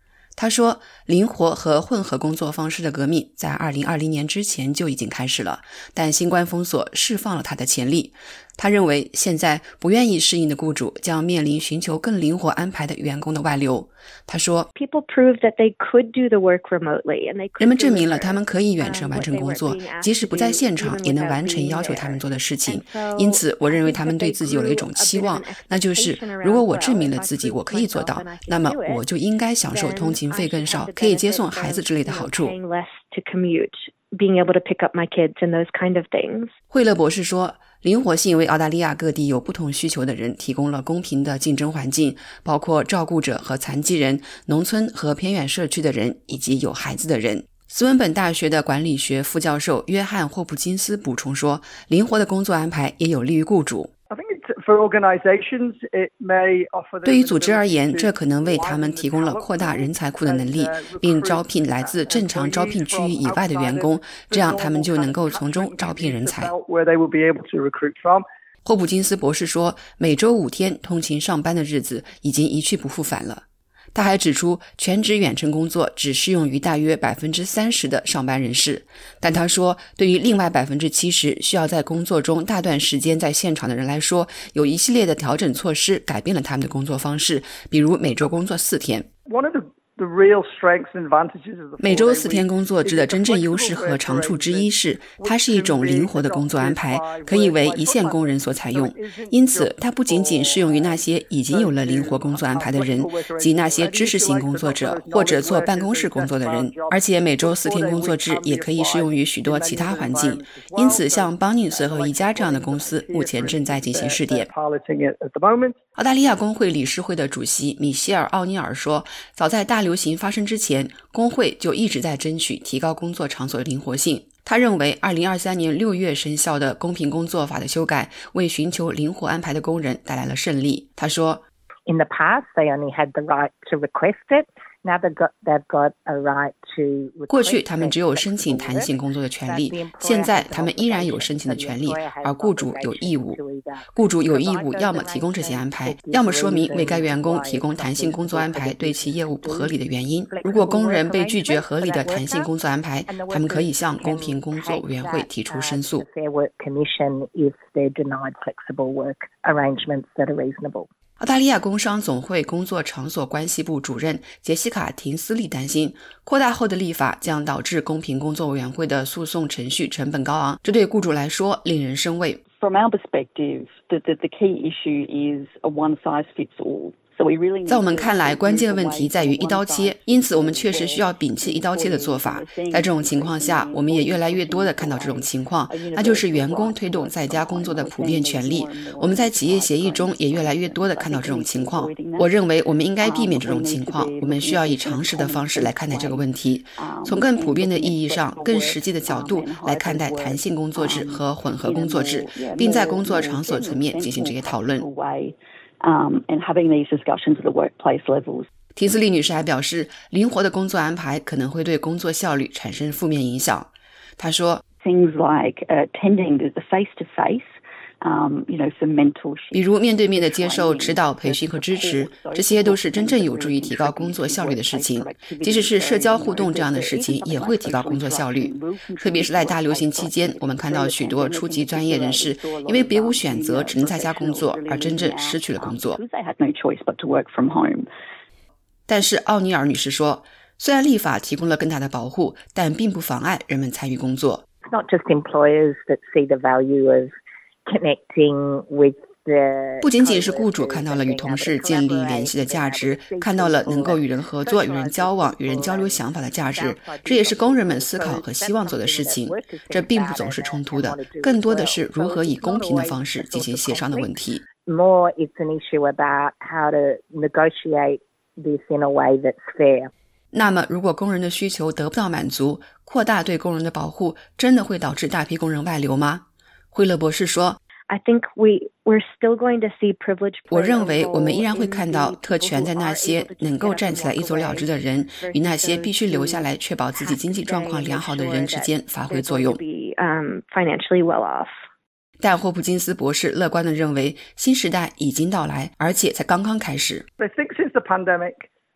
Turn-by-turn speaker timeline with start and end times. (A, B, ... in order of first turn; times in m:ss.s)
0:00.4-0:14.7 A
0:14.8-0:29.0 B
0:17.6-0:32.6 A
0:29.6-0:36.5 B
0:36.7-0:53.9 A
0:54.1-1:08.2 C
0:57.0-1:06.5 A
1:08.6-1:13.4 A
1:13.9-1:29.1 A
1:29.2-1:55.8 C
1:31.8-1:54.5 A
1:56.0-2:11.4 A
2:11.9-2:18.9 D
2:17.3-2:36.0 A
2:19.4-2:29.8 D
2:30.3-2:32.5 D
2:33.1-2:40.9 D
2:41.2-2:52.4 A
2:52.6-3:12.3 E
2:57.7-3:24.8 A
3:13.0-3:28.5 E
3:28.7-3:34.6 A
3:34.8-3:37.5 E
3:38.0-3:39.6 E
3:39.5-3:56.0 A
3:40.1-3:57.9 E
3:58.9-4:04.4 A
4:04.6-4:07.1 D
4:07.6-4:24.1 D
4:09.8-4:24.4 A
4:24.6-4:29.9 D
4:30.3-4:37.6 A
4:37.9-4:51.5 B
4:40.5-4:49.6 A
4:52.2-4:57.0 A
4:57.2-4:58.5 C